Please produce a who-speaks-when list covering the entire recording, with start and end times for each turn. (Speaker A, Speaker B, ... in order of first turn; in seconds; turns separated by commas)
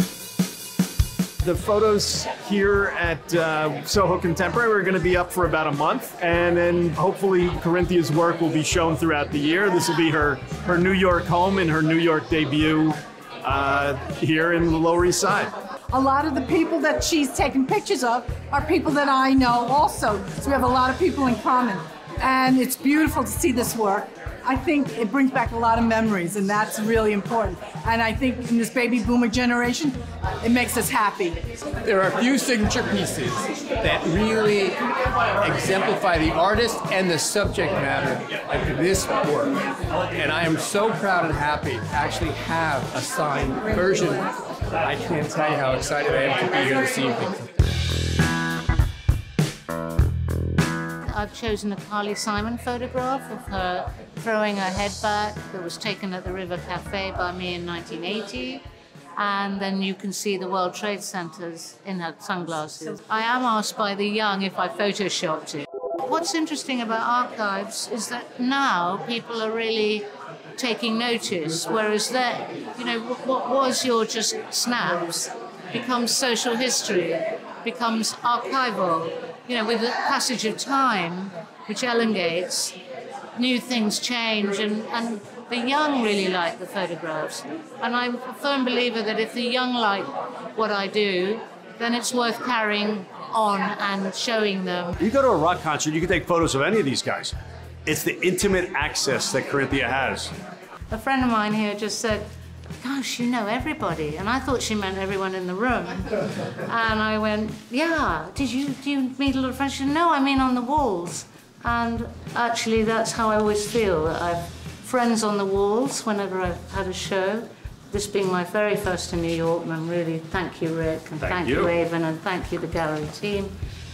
Speaker A: 1.4-15.5, Speaker B: 15.9-31.4, Speaker C: 31.8-34.8, Speaker C: 35.4-39.6, Speaker C: 40.1-44.3, Speaker C: 44.8-47.4, Speaker D: 51.0-58.6, Speaker D: 59.1-82.8, Speaker D: 83.3-94.9, Speaker E: 95.0-97.3, Speaker E: 97.8-100.3, Speaker D: 100.9-102.3, Speaker D: 102.8-123.5, Speaker E: 121.2-121.7